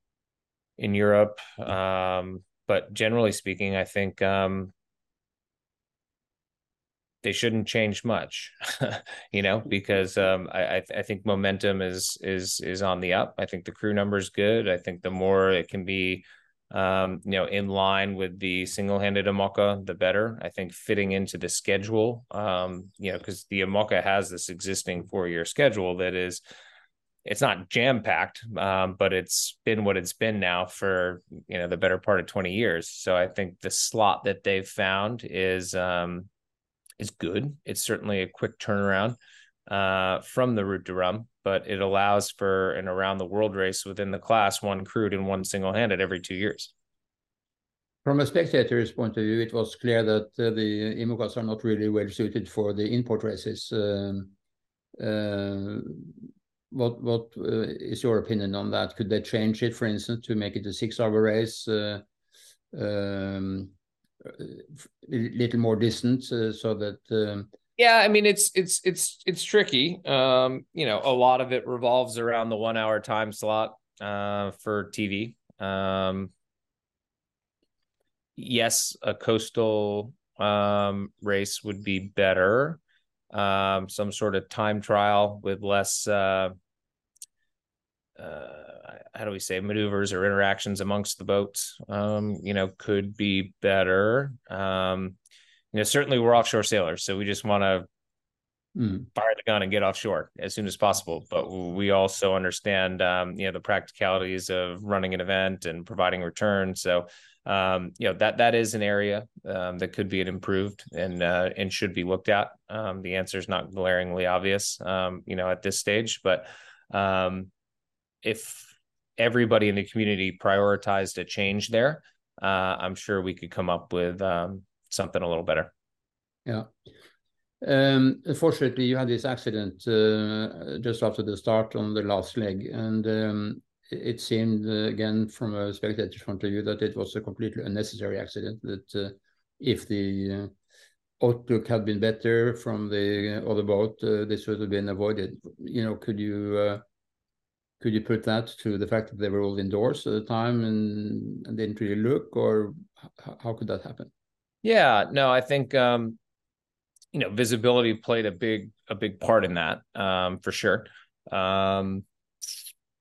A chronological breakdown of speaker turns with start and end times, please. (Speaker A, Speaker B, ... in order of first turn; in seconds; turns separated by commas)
Speaker A: 0.8-4.7, Speaker A: 7.2-26.4, Speaker A: 27.2-36.3, Speaker A: 37.0-39.2, Speaker A: 39.7-46.7, Speaker B: 48.0-54.3, Speaker B: 55.0-56.1, Speaker B: 56.7-62.0, Speaker B: 62.7-67.5, Speaker A: 67.8-76.3, Speaker A: 78.3-82.8, Speaker A: 83.3-86.5, Speaker A: 88.2-95.2, Speaker A: 95.7-97.9, Speaker B: 98.8-99.1, Speaker A: 99.1-117.5, Speaker A: 118.2-125.7, Speaker B: 127.6-140.5, Speaker B: 141.2-146.8, Speaker B: 147.8-154.1, Speaker A: 154.6-156.2, Speaker A: 157.1-162.0